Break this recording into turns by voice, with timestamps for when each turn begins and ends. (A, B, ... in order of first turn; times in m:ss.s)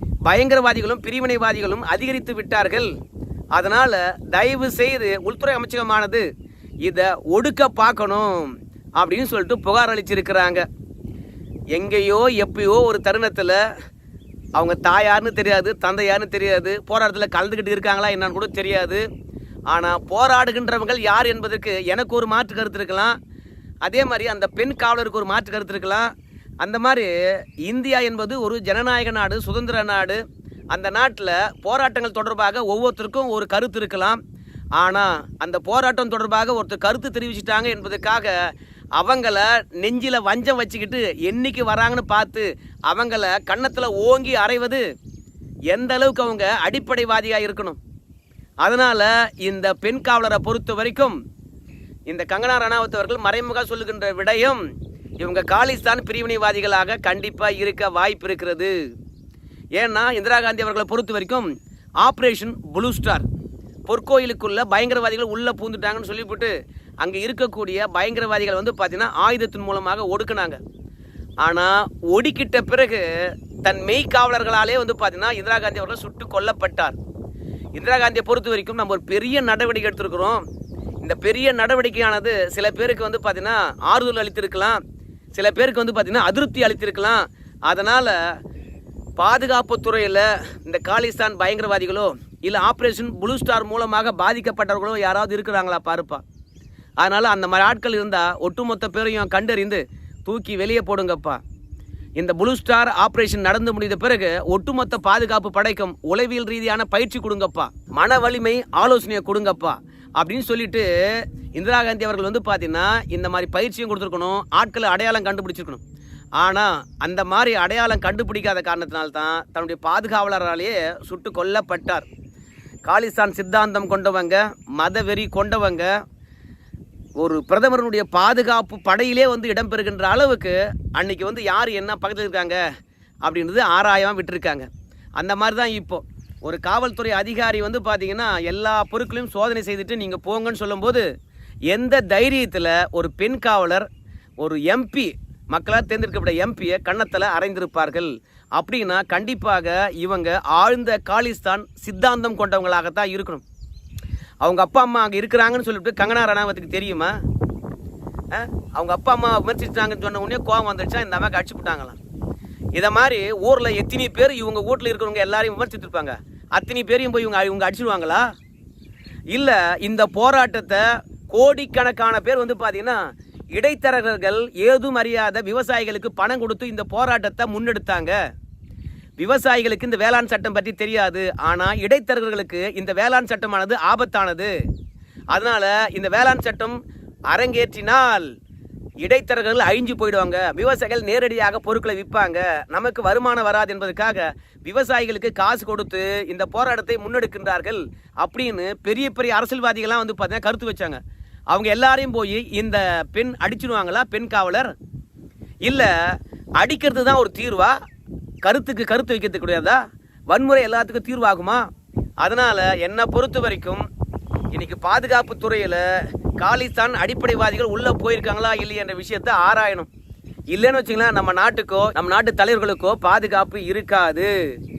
0:00.3-0:02.9 A
0:03.5-0:06.2 A
0:06.8-0:10.6 A
0:11.7-0:13.6 A
0:14.6-0:19.0 A
0:19.7-0:23.1 A
0:23.8-0:26.1 A
0:26.6-0:27.1 A
0:27.6-0:34.2 A
0:34.8-0:38.3 A
0:39.0-0:44.8 A
0:45.7-0:47.8 A
0:48.6-0:51.2 A
0:52.1-0:54.6 A
0:55.2-0:58.7 A
0:59.8-1:01.5 A
1:02.0-1:03.2 A
1:03.9-1:10.6 A
1:11.4-1:13.1 A
1:13.6-1:17.0 A
1:17.7-1:20.4 A
1:21.0-1:24.8 A
1:25.3-1:28.2 A
1:29.2-1:36.2 A
1:37.0-1:41.4 A
1:42.2-1:50.9 A
1:51.5-1:55.8 A
1:56.4-2:02.1 A
2:02.8-2:05.9 A
2:07.2-2:12.6 A
2:13.2-2:21.0 A
2:21.7-2:23.9 A
2:24.4-2:33.4 A
2:34.4-2:37.1 A
2:38.3-2:42.0 A
2:42.8-2:48.2 A
2:49.3-2:53.0 A
2:53.6-2:58.2 A
2:59.2-3:04.5 A
3:05.3-3:06.8 A
3:07.3-3:08.3 A
3:09.0-3:21.0 A
3:21.5-3:24.7 A
3:25.6-3:25.9 A
3:26.6-3:27.8 A
3:28.4-3:31.6 A
3:32.2-3:33.8 A
3:34.5-3:35.8 A
3:36.4-3:39.9 A
3:40.5-3:44.3 A